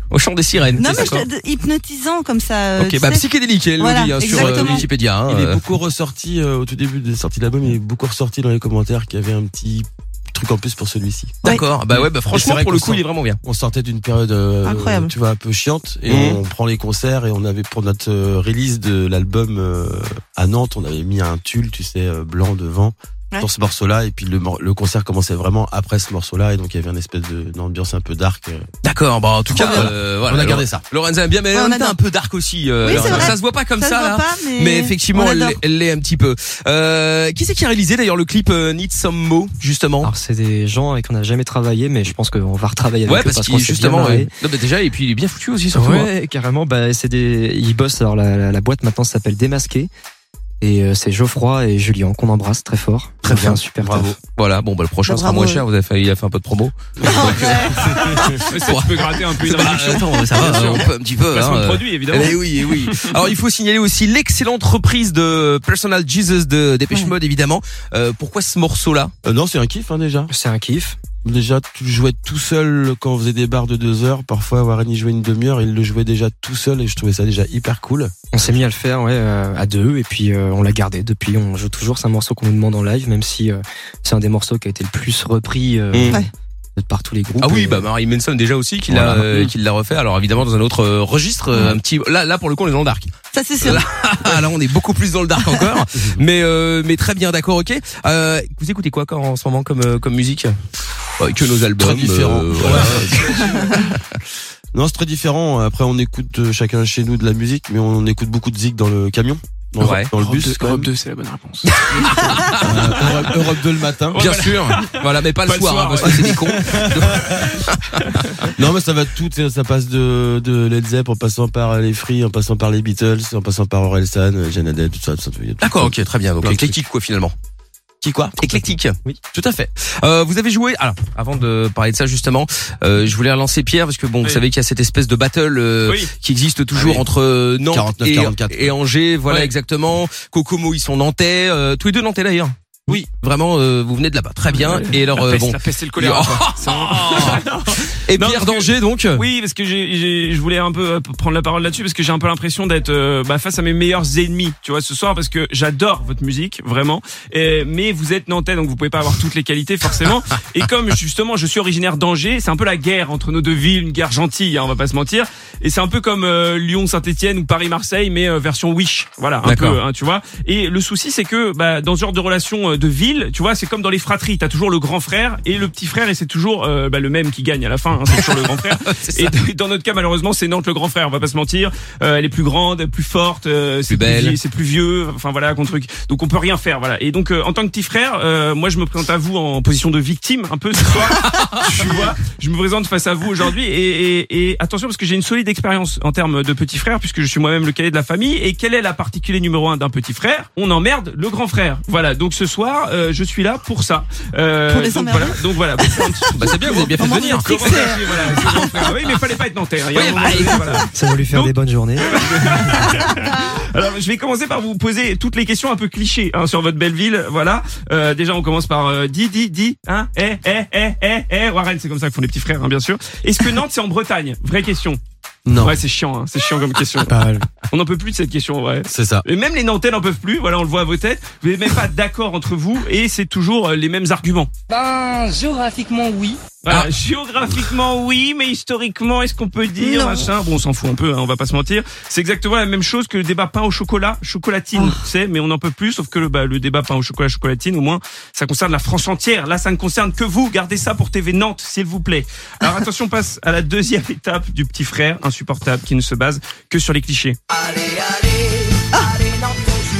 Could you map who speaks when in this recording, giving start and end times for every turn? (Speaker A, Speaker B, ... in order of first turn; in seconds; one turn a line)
Speaker A: 0.1-1.3
Speaker B: 0.8-4.9
Speaker A: 2.8-5.6
Speaker C: 4.2-28.7
Speaker A: 11.4-13.4
Speaker B: 14.7-15.1
Speaker A: 16.1-16.4
Speaker A: 28.8-40.1
Speaker B: 29.5-29.9
Speaker C: 29.6-30.8
Speaker B: 31.5-32.0
Speaker B: 32.8-35.6
Speaker C: 32.9-33.2
Speaker D: 40.0-44.3
Speaker A: 43.1-46.1
Speaker D: 45.7-49.9
Speaker D: 50.6-54.1
Speaker A: 53.2-69.1
Speaker C: 53.3-54.1
Speaker B: 55.0-55.7
Speaker B: 57.0-58.2
Speaker C: 57.0-58.4
Speaker E: 58.4-63.1
Speaker B: 60.4-60.8
Speaker B: 66.9-67.2
Speaker C: 69.2-70.3
Speaker D: 70.3-71.0
Speaker C: 71.2-78.6
Speaker D: 78.3-86.2
Speaker A: 85.9-86.2
Speaker D: 86.8-87.9
Speaker A: 87.4-100.6
Speaker D: 88.9-89.5
Speaker B: 91.5-91.8
Speaker B: 93.3-94.4
Speaker B: 95.4-95.8
Speaker A: 101.2-104.2
Speaker C: 101.7-103.4
Speaker C: 104.7-110.9
Speaker A: 109.8-110.1
Speaker E: 110.1-113.5
Speaker A: 111.6-113.1
Speaker C: 112.5-114.2
Speaker E: 114.1-117.5
Speaker A: 114.2-118.5
Speaker C: 116.1-117.5
Speaker E: 118.0-118.5
Speaker C: 118.5-126.8
Speaker A: 125.6-127.3
Speaker C: 128.0-128.6
Speaker A: 128.4-129.0
Speaker C: 129.3-129.7
Speaker A: 129.8-149.3
Speaker E: 135.9-136.1
Speaker C: 136.7-137.1
Speaker C: 137.7-138.8
Speaker E: 144.5-225.0
Speaker A: 169.4-169.8
Speaker A: 178.1-179.4
Speaker A: 183.9-184.4
Speaker A: 190.9-192.0
Speaker B: 204.6-209.2
Speaker A: 206.3-208.2
Speaker A: 209.9-210.9
Speaker D: 210.9-212.1
Speaker B: 213.1-213.6
Speaker C: 225.5-225.8
Speaker E: 225.6-227.1
Speaker C: 227.0-227.5
Speaker E: 227.7-234.5
Speaker C: 228.9-229.3
Speaker E: 236.6-257.4
Speaker A: 236.7-236.9
Speaker B: 239.8-240.3
Speaker B: 244.7-245.1
Speaker A: 257.7-258.1